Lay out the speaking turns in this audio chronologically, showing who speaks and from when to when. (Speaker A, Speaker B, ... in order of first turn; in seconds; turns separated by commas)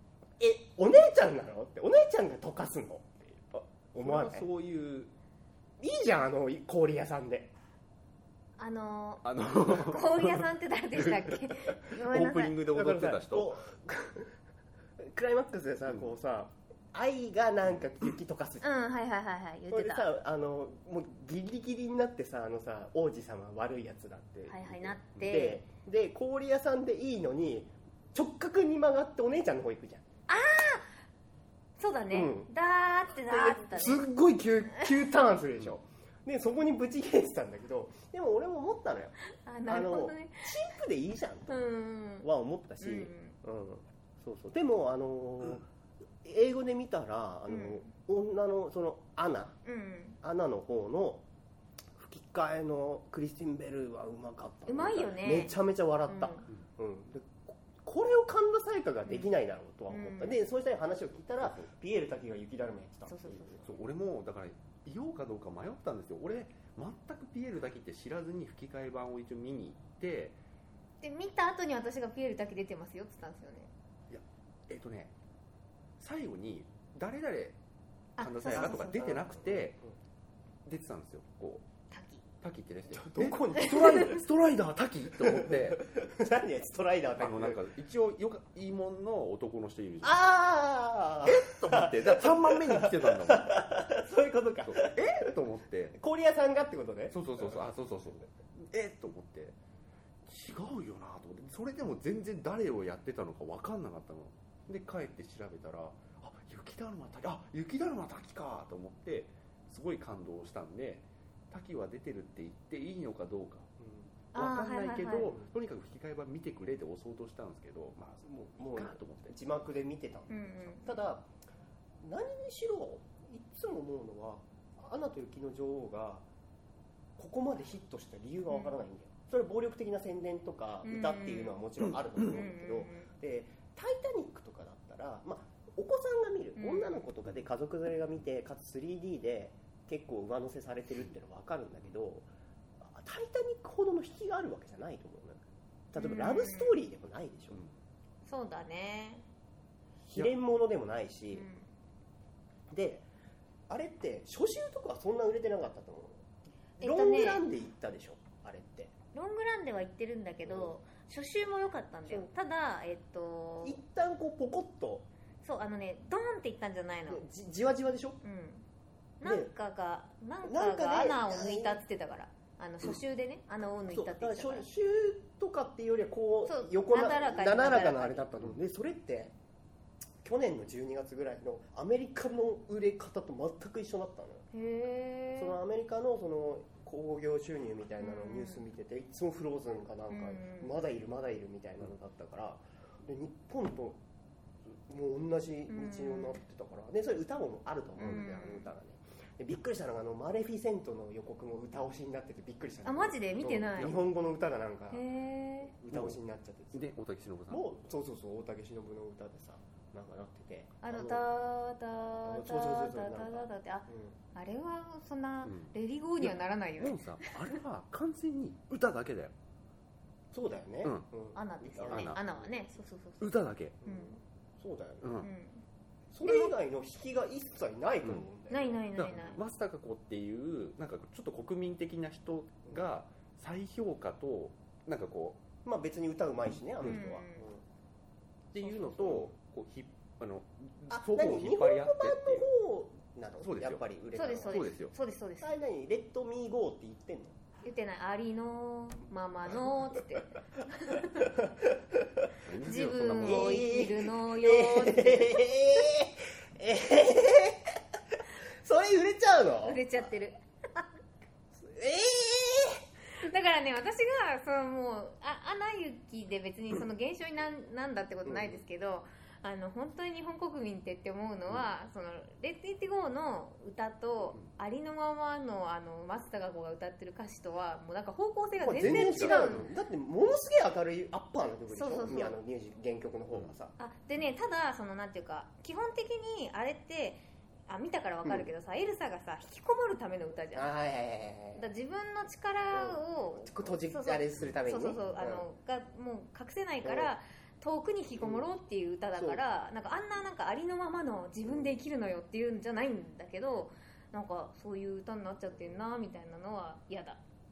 Speaker A: 0.4-4.5, Speaker B: 4.0-5.1, Speaker A: 5.8-7.5, Speaker C: 8.6-12.6, Speaker B: 9.2-13.6, Speaker A: 12.7-14.3, Speaker A: 15.0-18.7, Speaker C: 18.6-20.1, Speaker A: 19.7-30.0, Speaker C: 24.5-25.6, Speaker B: 25.1-25.4, Speaker C: 30.3-30.9, Speaker C: 31.8-34.0, Speaker A: 32.1-32.5, Speaker A: 33.3-41.6, Speaker C: 39.4-40.6, Speaker C: 41.5-42.3, Speaker A: 42.2-45.7, Speaker C: 42.8-43.3, Speaker A: 46.2-49.6, Speaker C: 47.5-47.9, Speaker C: 49.6-50.2, Speaker A: 50.2-51.2, Speaker A: 52.0-63.6, Speaker C: 54.6-55.5, Speaker C: 56.1-56.4, Speaker C: 59.9-60.4, Speaker C: 63.1-63.7, Speaker B: 63.6-70.4, Speaker C: 71.0-73.7, Speaker B: 74.1-75.1, Speaker B: 76.0-77.6, Speaker C: 78.2-79.2, Speaker B: 78.2-79.8, Speaker A: 78.5-79.7, Speaker B: 80.7-81.6, Speaker C: 81.9-82.2, Speaker B: 82.4-85.8, Speaker A: 82.9-84.2, Speaker A: 85.2-87.6, Speaker B: 87.2-90.1, Speaker A: 90.0-95.3, Speaker B: 91.2-93.6, Speaker B: 94.7-96.0, Speaker A: 96.0-97.6, Speaker B: 97.1-99.5, Speaker B: 100.2-113.7, Speaker A: 113.8-114.1, Speaker C: 114.3-115.3, Speaker B: 114.3-119.3, Speaker A: 118.2-121.3, Speaker C: 120.3-120.9, Speaker A: 122.0-126.2, Speaker A: 127.2-142.3, Speaker C: 128.5-128.8, Speaker C: 130.8-131.6, Speaker C: 132.2-133.1, Speaker C: 136.6-137.0, Speaker A: 142.8-147.6, Speaker C: 146.0-146.8, Speaker C: 148.2-149.2, Speaker A: 150.0-151.5, Speaker C: 151.3-151.7, Speaker A: 152.7-153.1, Speaker A: 153.7-156.2, Speaker A: 156.8-158.9, Speaker C: 156.8-157.4, Speaker C: 159.1-163.8, Speaker A: 160.4-160.7, Speaker A: 163.6-165.1, Speaker C: 165.4-167.2, Speaker A: 167.1-168.2, Speaker C: 168.2-168.6, Speaker C: 169.2-174.7, Speaker A: 169.2-169.5, Speaker A: 170.4-171.8, Speaker A: 173.9-179.3, Speaker C: 176.4-178.3, Speaker A: 180.2-184.4, Speaker C: 184.5-185.6, Speaker A: 185.3-194.0, Speaker C: 188.0-188.6, Speaker C: 190.1-190.8, Speaker A: 194.8-205.1, Speaker C: 195.7-196.4, Speaker C: 198.0-198.7, Speaker C: 202.8-203.9, Speaker C: 204.9-205.7, Speaker A: 205.7-206.9, Speaker B: 205.9-206.2, Speaker B: 206.7-207.7, Speaker A: 207.5-211.3, Speaker C: 210.8-217.3, Speaker A: 212.2-214.2, Speaker B: 215.4-219.3, Speaker A: 220.3-222.5, Speaker C: 221.3-224.2, Speaker B: 221.8-222.2, Speaker B: 223.2-223.8, Speaker A: 223.8-225.2, Speaker B: 225.0-225.3, Speaker C: 225.2-225.6, Speaker A: 226.1-229.3, Speaker C: 228.5-229.4, Speaker B: 228.9-235.4, Speaker A: 235.6-237.6, Speaker C: 236.8-237.4, Speaker B: 238.5-242.5, Speaker C: 238.6-239.2, Speaker A: 240.9-244.7, Speaker B: 243.4-243.8, Speaker C: 244.1-245.5, Speaker B: 244.5-244.9, Speaker A: 245.4-247.4, Speaker C: 247.6-251.4, Speaker A: 251.2-252.3, Speaker B: 252.4-253.7, Speaker C: 252.6-255.5, Speaker A: 253.2-259.8, Speaker C: 259.6-260.9, Speaker A: 261.5-262.8, Speaker C: 263.2-279.6, Speaker A: 268.2-268.6, Speaker A: 278.6-283.7, Speaker B: 278.8-279.7, Speaker C: 281.7-282.3, Speaker C: 283.8-290.7, Speaker A: 288.2-288.5, Speaker A: 290.5-291.6, Speaker C: 291.6-307.2, Speaker A: 292.7-295.4, Speaker A: 296.8-297.1, Speaker A: 298.2-298.4, Speaker A: 299.1-299.4, Speaker A: 301.5-301.8